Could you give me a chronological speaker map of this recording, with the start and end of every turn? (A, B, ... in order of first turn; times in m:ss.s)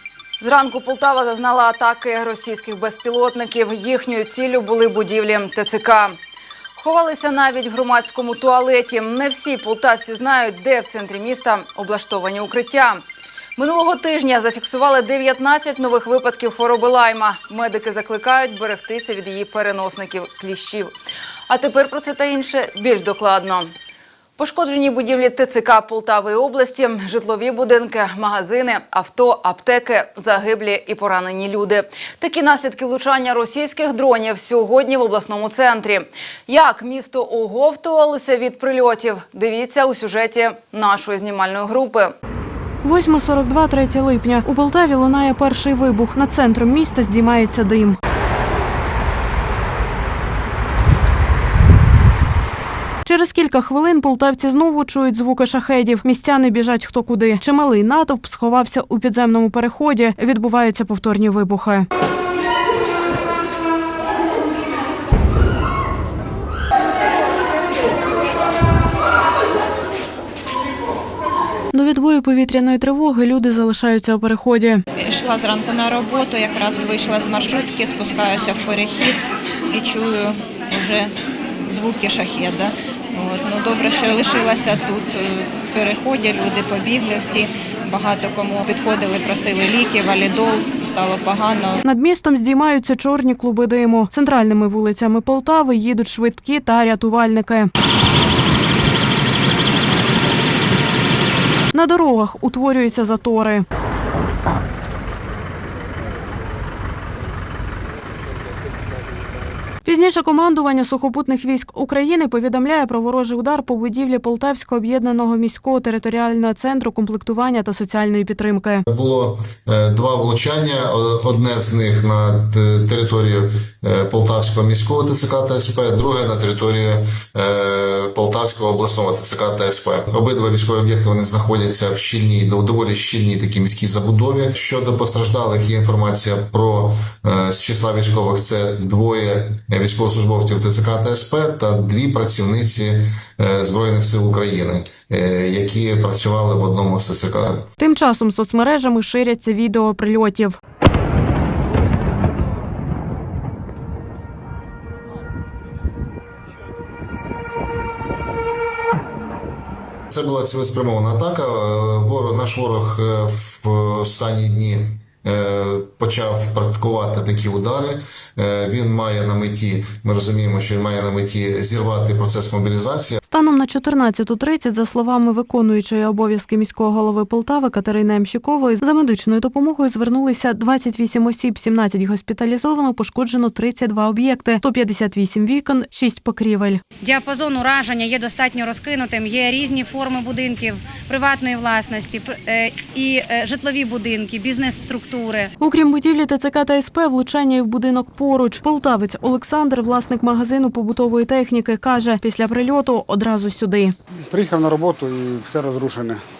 0:00.4-0:06.2 A
0:06.8-0:13.0 A
0:13.6-0:20.9 A
0:21.5-0:23.7 A
0:24.4-0:42.1 A
0:42.8-0:48.0 B
0:53.0-1:01.8 B
1:11.7-1:14.8 B
1:15.0-1:21.1 C
1:21.6-1:31.8 C
1:31.8-1:37.7 B
1:41.7-1:43.6 B
1:49.8-1:58.8 B
1:58.9-2:27.6 D
2:27.8-2:30.6 B
2:40.1-2:53.2 D
2:53.2-3:06.8 B
3:07.0-3:15.5 E
3:15.6-3:23.9 B
3:24.3-3:26.2 F